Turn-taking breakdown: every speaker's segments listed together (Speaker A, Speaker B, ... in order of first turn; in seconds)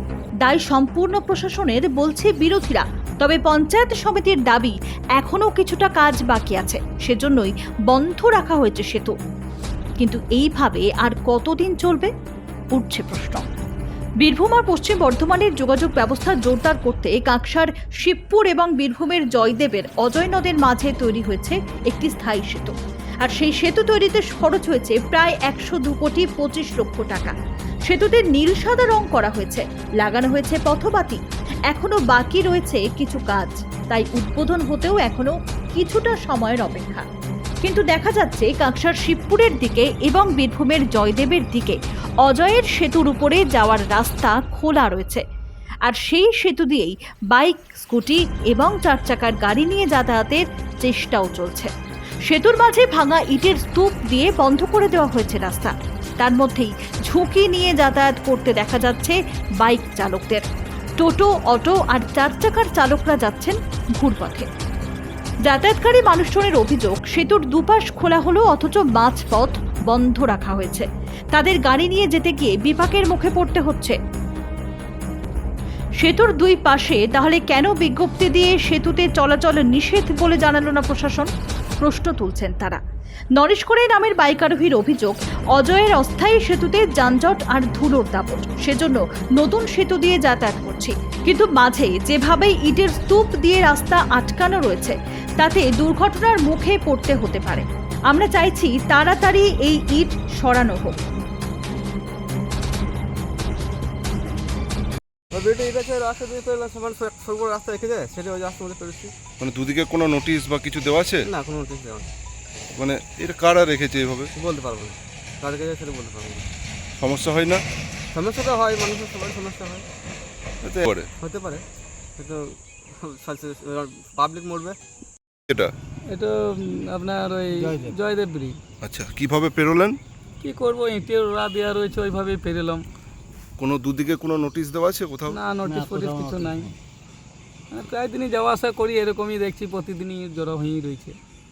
Speaker A: 0.4-9.2, 10.0-12.1, 12.7-13.5, 14.2-27.3, 27.9-37.1, 37.6-45.2, 45.9-51.7, 52.2-60.5, 61.0-64.5, 65.4-74.0, 76.0-81.3, 81.8-82.8, 83.4-101.0
Speaker B: 105.3-109.1, 111.3-112.1, 114.4-116.5, 118.1-119.9, 121.2-121.7, 122.2-124.8
Speaker C: 109.4-111.3, 112.7-114.3, 117.0-117.6, 120.6-121.1, 128.8-130.0, 133.6-135.4
Speaker D: 126.1-128.6, 130.4-132.8, 135.3-136.7, 137.7-141.2